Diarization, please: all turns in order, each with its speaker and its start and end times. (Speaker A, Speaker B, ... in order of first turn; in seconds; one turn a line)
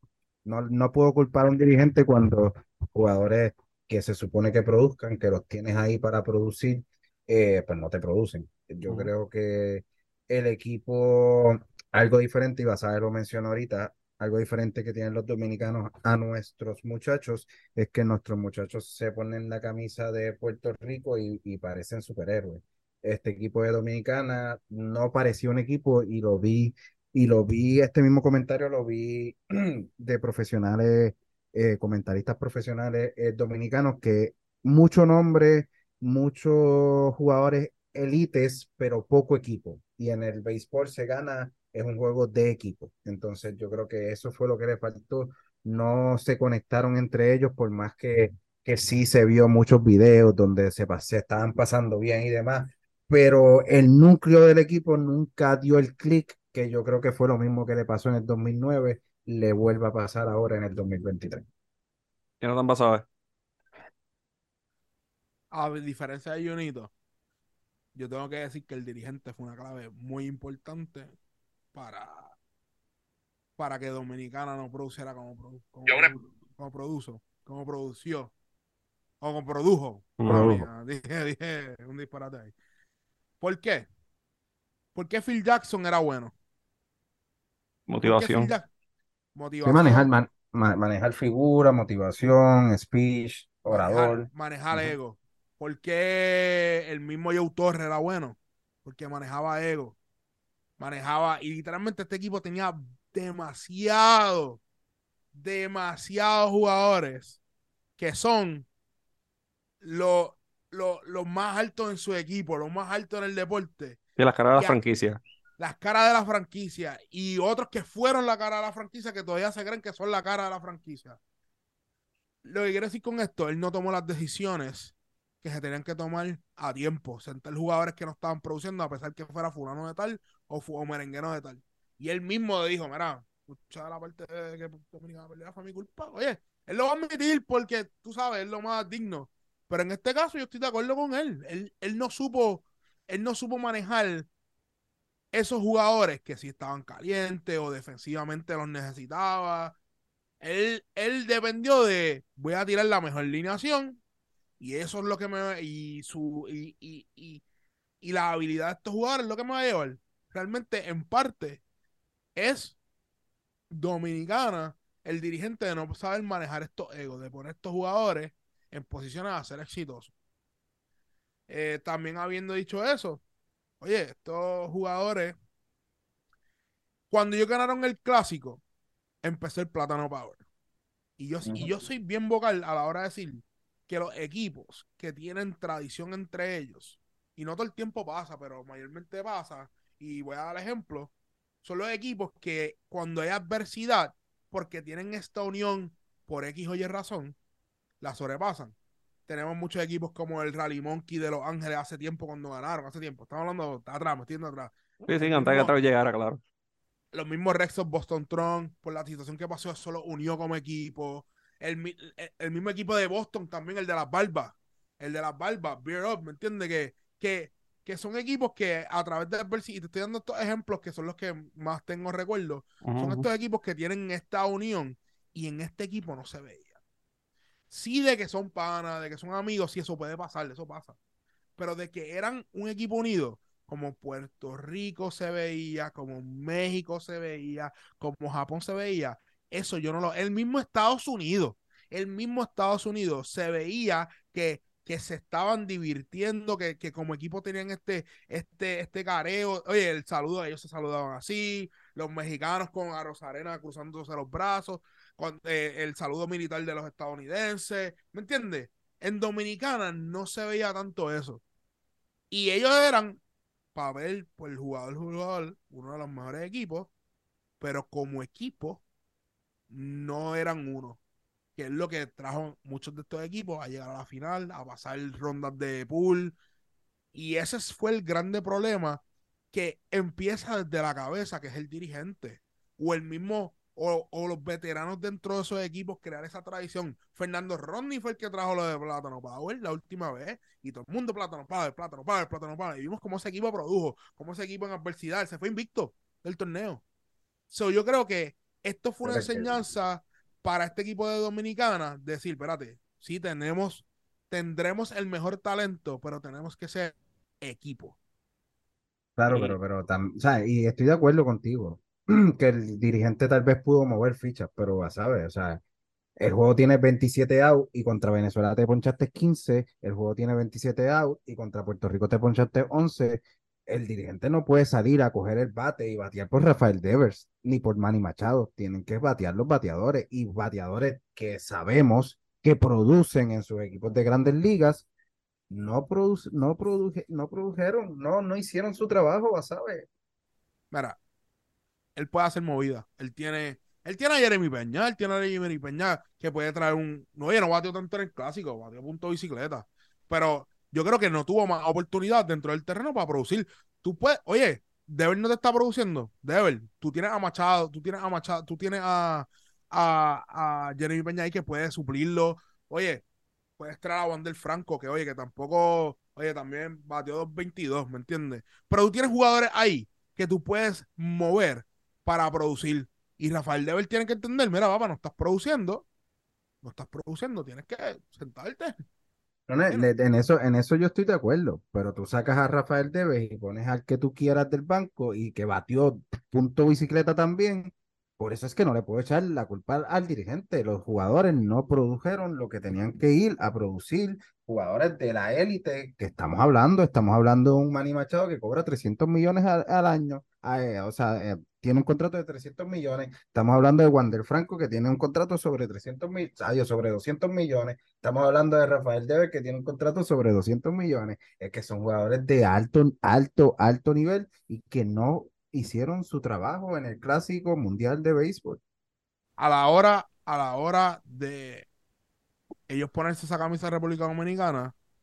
Speaker A: 0.5-61.4
Speaker B: 62.4-63.1
Speaker C: 65.5-66.9
Speaker C: 68.0-71.1
Speaker C: 71.7-72.3
Speaker C: 73.6-78.3
Speaker C: 79.2-82.5
Speaker B: 80.2-80.7
Speaker C: 83.4-83.9
Speaker C: 85.0-86.3
Speaker B: 87.9-88.5
Speaker C: 88.0-88.7
Speaker C: 89.3-90.1
Speaker A: 89.6-94.9
Speaker C: 93.7-100.0
Speaker C: 100.8-104.6
Speaker C: 105.3-107.4
Speaker C: 108.0-108.7
Speaker C: 109.8-114.0
Speaker B: 114.2-115.2
Speaker C: 115.6-121.2
Speaker C: 122.5-144.3
Speaker C: 145.3-149.8
Speaker C: 150.4-154.0
Speaker C: 154.6-157.4
Speaker C: 158.0-161.6
Speaker C: 162.3-162.8
Speaker C: 163.7-170.1
Speaker C: 171.5-173.2
Speaker C: 173.8-175.4
Speaker C: 177.1-178.6
Speaker C: 179.2-180.4
Speaker C: 181.2-191.1
Speaker A: 181.4-181.7
Speaker C: 191.6-197.4
Speaker C: 198.0-198.8
Speaker C: 199.3-205.7
Speaker B: 205.1-206.4
Speaker C: 207.1-226.7
Speaker B: 222.8-223.3
Speaker C: 227.7-231.0
Speaker C: 231.6-261.4
Speaker C: 262.3-263.2
Speaker C: 263.8-266.9
Speaker C: 267.6-268.8
Speaker C: 269.7-271.0
Speaker C: 271.6-276.4
Speaker C: 277.1-279.0
Speaker C: 279.5-296.8
Speaker C: 297.5-308.0
Speaker A: 299.0-299.6
Speaker A: 309.2-315.6
Speaker B: 309.3-309.6
Speaker A: 316.2-334.9
Speaker A: 335.5-339.9
Speaker C: 340.7-341.0
Speaker C: 342.0-363.0
Speaker C: 363.6-375.9
Speaker C: 376.6-378.8
Speaker A: 379.5-418.6
Speaker C: 419.4-421.7
Speaker C: 422.7-424.7